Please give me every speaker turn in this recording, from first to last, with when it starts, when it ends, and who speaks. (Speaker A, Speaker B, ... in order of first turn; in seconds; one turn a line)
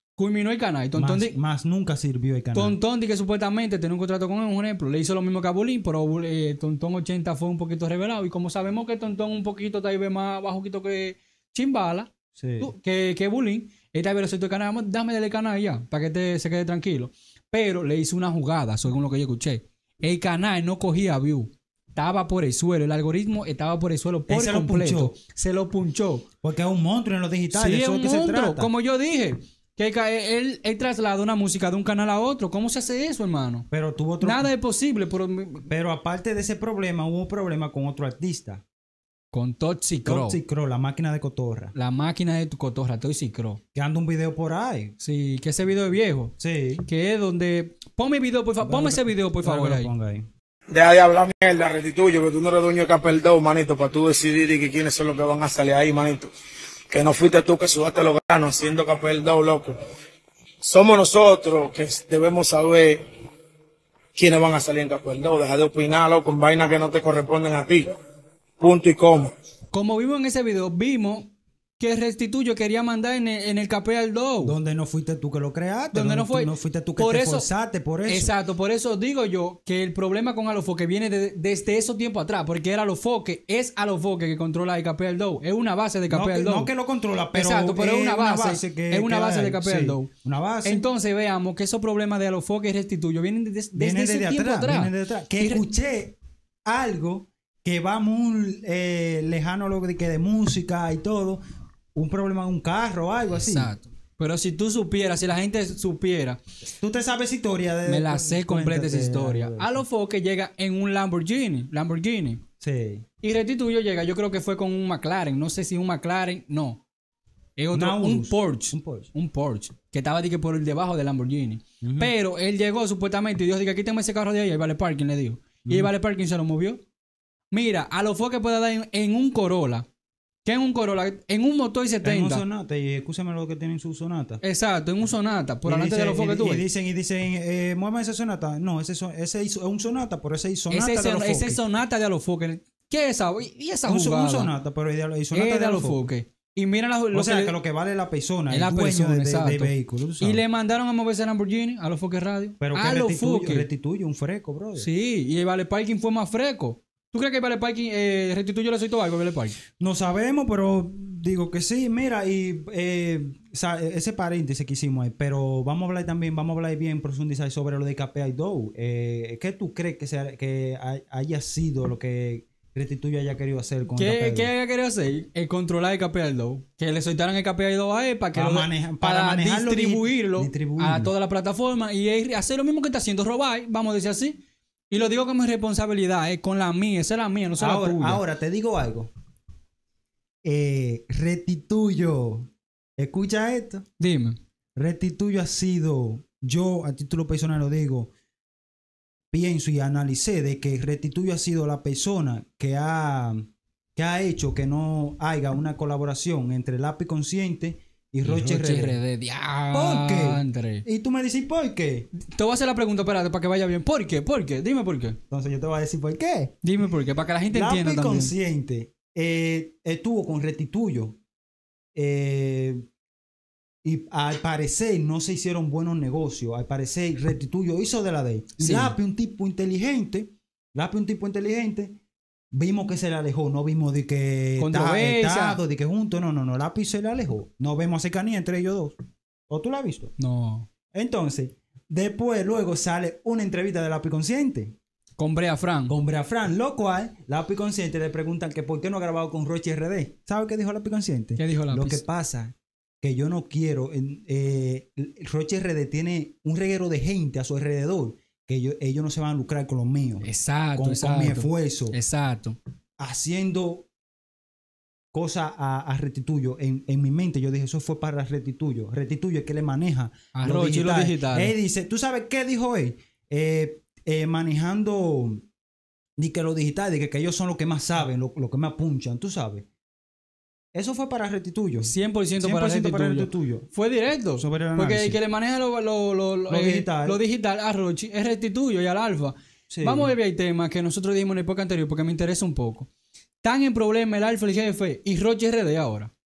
Speaker A: 0.2-1.4
Speaker B: 0.9-2.8
Speaker A: 2.5-26.3
Speaker B: 12.4-12.7
Speaker B: 24.3-25.2
Speaker B: 26.4-28.7
Speaker A: 27.5-33.7
Speaker B: 33.7-34.5
Speaker A: 34.2-35.7
Speaker B: 35.7-38.6
Speaker A: 39.3-40.4
Speaker B: 40.0-41.7
Speaker A: 41.8-43.6
Speaker B: 43.7-45.0
Speaker A: 45.0-49.9
Speaker B: 46.4-46.9
Speaker B: 48.6-50.3
Speaker C: 50.7-56.3
Speaker C: 56.9-59.8
Speaker C: 60.6-63.0
Speaker C: 64.2-67.9
Speaker C: 68.6-69.3
Speaker A: 69.7-74.5
Speaker B: 74.4-78.3
Speaker A: 75.9-77.5
Speaker A: 78.0-86.7
Speaker B: 86.1-90.8
Speaker A: 87.3-90.1
Speaker A: 90.6-95.6
Speaker B: 93.8-101.4
Speaker B: 102.0-103.7
Speaker A: 103.3-106.4
Speaker B: 106.8-109.8
Speaker A: 107.9-112.4
Speaker B: 112.6-113.0
Speaker A: 113.2-116.8
Speaker A: 117.6-126.8
Speaker B: 117.7-119.1
Speaker B: 121.8-122.1
Speaker B: 125.7-125.9
Speaker A: 127.5-129.9
Speaker A: 130.4-132.4
Speaker B: 132.0-134.4
Speaker A: 134.4-136.7
Speaker B: 135.7-141.6
Speaker A: 140.7-144.5
Speaker B: 143.9-146.1
Speaker A: 145.3-147.6
Speaker B: 147.1-150.4
Speaker A: 148.5-153.7
Speaker B: 152.6-154.9
Speaker A: 154.8-159.6
Speaker B: 159.8-174.5
Speaker A: 173.9-188.2
Speaker B: 178.3-181.1
Speaker B: 187.6-189.1
Speaker B: 190.4-193.8
Speaker A: 194.0-194.4
Speaker B: 194.8-198.1
Speaker B: 199.3-209.0
Speaker A: 208.2-210.8
Speaker B: 209.7-212.1
Speaker A: 212.2-215.2
Speaker B: 215.3-216.6
Speaker A: 216.6-218.3
Speaker B: 217.5-221.2
Speaker B: 221.9-222.8
Speaker B: 223.8-232.0
Speaker A: 228.6-228.9
Speaker B: 232.5-239.0
Speaker A: 234.6-235.6
Speaker B: 239.5-240.1
Speaker A: 240.2-240.7
Speaker B: 240.9-244.8
Speaker A: 245.2-246.0
Speaker B: 245.9-262.0
Speaker A: 251.4-252.0
Speaker A: 260.2-262.6
Speaker B: 263.0-263.9
Speaker B: 265.1-275.4
Speaker A: 270.4-271.6
Speaker B: 276.2-279.7
Speaker B: 280.7-283.7
Speaker A: 281.8-292.9
Speaker B: 284.4-285.2
Speaker B: 286.5-287.2
Speaker B: 289.7-290.1
Speaker A: 293.4-296.1